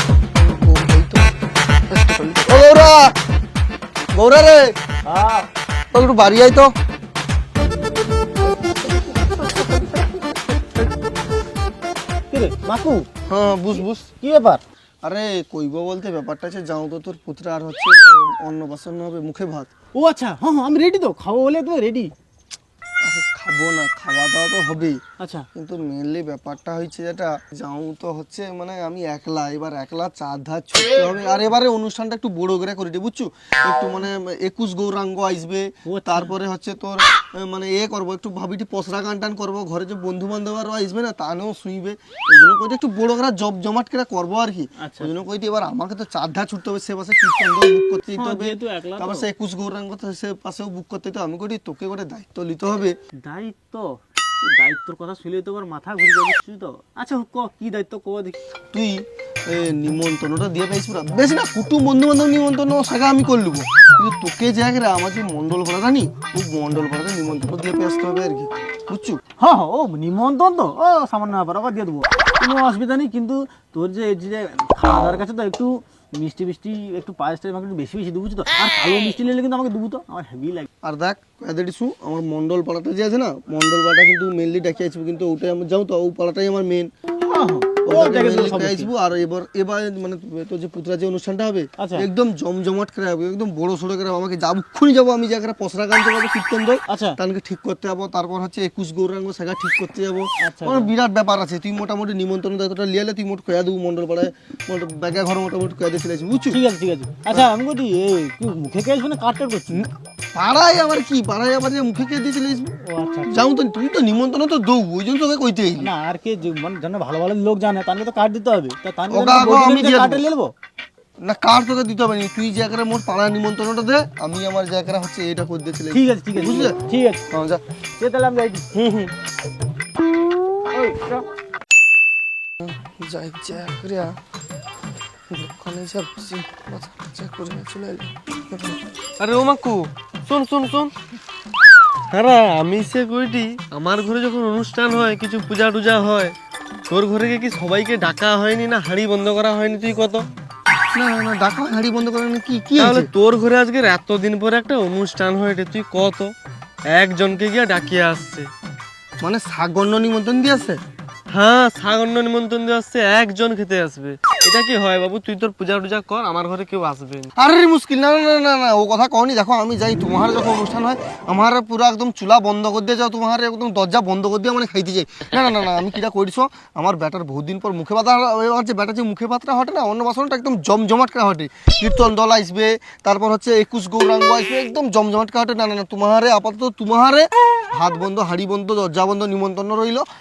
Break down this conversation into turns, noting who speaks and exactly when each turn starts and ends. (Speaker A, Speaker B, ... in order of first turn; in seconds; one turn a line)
Speaker A: 0.3-1.3
Speaker A: 1.9-3.1
Speaker A: 4.1-4.7
Speaker B: 5.1-5.5
Speaker A: 5.9-6.7
Speaker A: 8.8-10.6
Speaker B: 12.3-13.1
Speaker A: 13.3-14.1
Speaker B: 14.2-14.6
Speaker A: 15.0-19.7
Speaker B: 19.9-22.1
Speaker A: 23.0-25.0
Speaker B: 25.2-25.4
Speaker A: 25.5-52.9
Speaker B: 35.9-36.3
Speaker B: 44.8-45.1
Speaker B: 48.2-49.3
Speaker B: 53.2-58.4
Speaker A: 58.7-69.2
Speaker B: 69.4-80.7
Speaker A: 80.8-86.9
Speaker B: 87.2-88.9
Speaker A: 87.8-106.6
Speaker B: 91.8-92.0
Speaker B: 96.9-97.2
Speaker B: 100.4-100.9
Speaker B: 106.5-109.8
Speaker A: 110.3-112.8
Speaker B: 112.8-113.5
Speaker A: 113.3-115.9
Speaker B: 115.8-120.5
Speaker A: 119.1-120.2
Speaker A: 121.2-126.8
Speaker B: 125.9-127.2
Speaker A: 127.3-127.6
Speaker B: 128.0-128.6
Speaker A: 128.7-129.1
Speaker B: 130.7-131.2
Speaker A: 132.6-134.1
Speaker A: 135.3-138.8
Speaker C: 139.2-140.9
Speaker C: 142.1-146.3
Speaker C: 146.9-150.2
Speaker A: 150.9-153.1
Speaker C: 152.8-156.3
Speaker C: 156.9-158.5
Speaker A: 159.2-160.8
Speaker C: 161.3-167.3
Speaker A: 167.4-190.0